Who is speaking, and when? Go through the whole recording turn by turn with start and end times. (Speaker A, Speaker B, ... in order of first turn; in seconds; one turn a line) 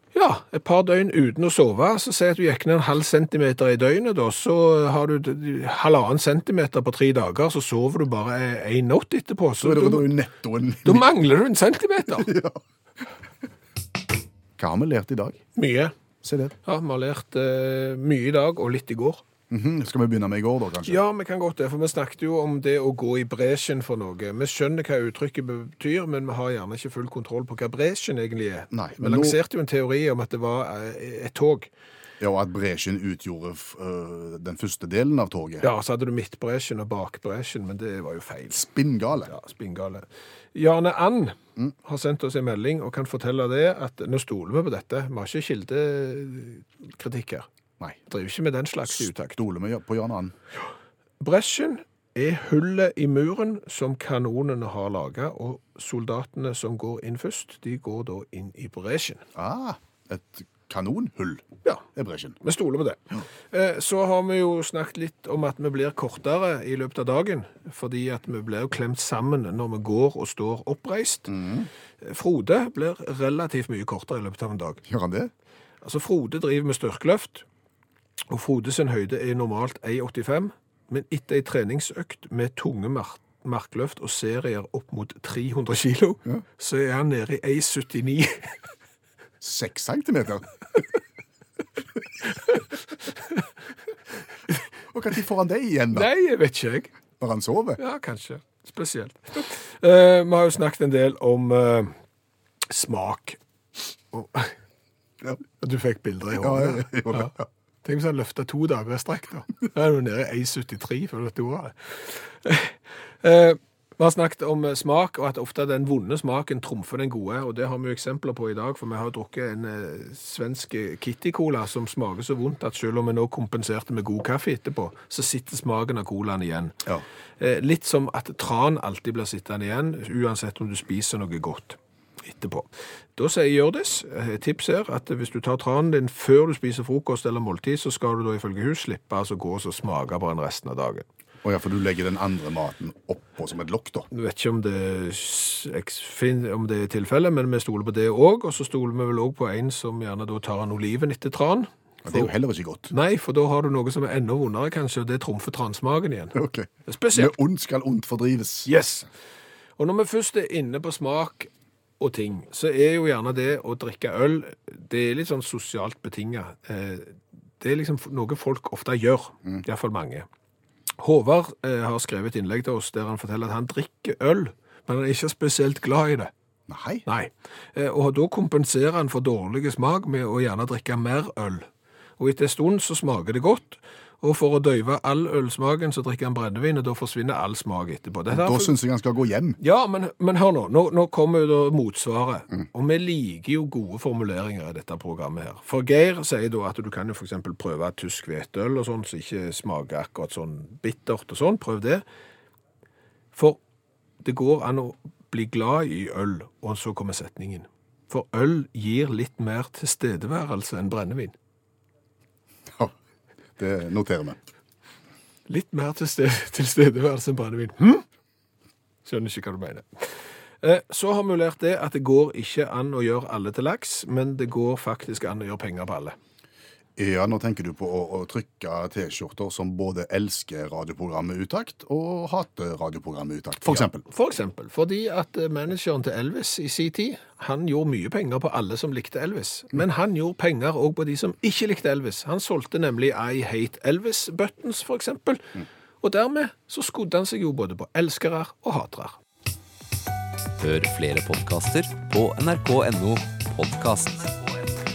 Speaker A: 0.1-10.1
Speaker B: 9.6-11.1
Speaker A: 10.8-12.3
Speaker B: 12.1-12.6
Speaker B: 14.6-15.4
Speaker A: 15.5-15.9
Speaker B: 16.2-16.5
Speaker A: 16.6-19.2
Speaker B: 19.5-21.0
Speaker A: 20.8-31.7
Speaker B: 28.7-29.4
Speaker B: 32.2-35.7
Speaker A: 35.6-38.6
Speaker B: 38.5-39.3
Speaker A: 39.3-47.5
Speaker A: 48.1-49.4
Speaker B: 48.9-50.4
Speaker A: 51.2-59.2
Speaker B: 59.4-62.4
Speaker A: 62.4-71.3
Speaker B: 71.3-71.7
Speaker A: 72.0-74.8
Speaker B: 74.9-75.3
Speaker A: 75.8-77.5
Speaker A: 78.3-88.6
Speaker B: 89.4-90.5
Speaker A: 92.3-92.6
Speaker B: 94.9-96.1
Speaker A: 95.9-96.9
Speaker B: 97.2-97.8
Speaker A: 97.8-101.9
Speaker A: 102.7-103.4
Speaker A: 104.1-104.5
Speaker A: 105.6-126.8
Speaker B: 106.4-107.4
Speaker A: 127.4-141.1
Speaker B: 141.4-144.1
Speaker A: 144.1-152.3
Speaker B: 152.0-152.9
Speaker A: 152.9-157.3
Speaker B: 156.3-158.7
Speaker A: 158.7-159.1
Speaker A: 159.8-170.3
Speaker A: 171.0-176.3
Speaker B: 176.7-177.0
Speaker A: 177.0-181.7
Speaker A: 182.2-188.7
Speaker B: 188.3-189.6
Speaker A: 189.6-202.0
Speaker A: 203.3-203.6
Speaker A: 204.2-211.3
Speaker B: 213.6-214.4
Speaker A: 215.5-218.0
Speaker A: 219.0-226.2
Speaker B: 227.0-234.0
Speaker A: 233.7-249.2
Speaker C: 250.6-254.8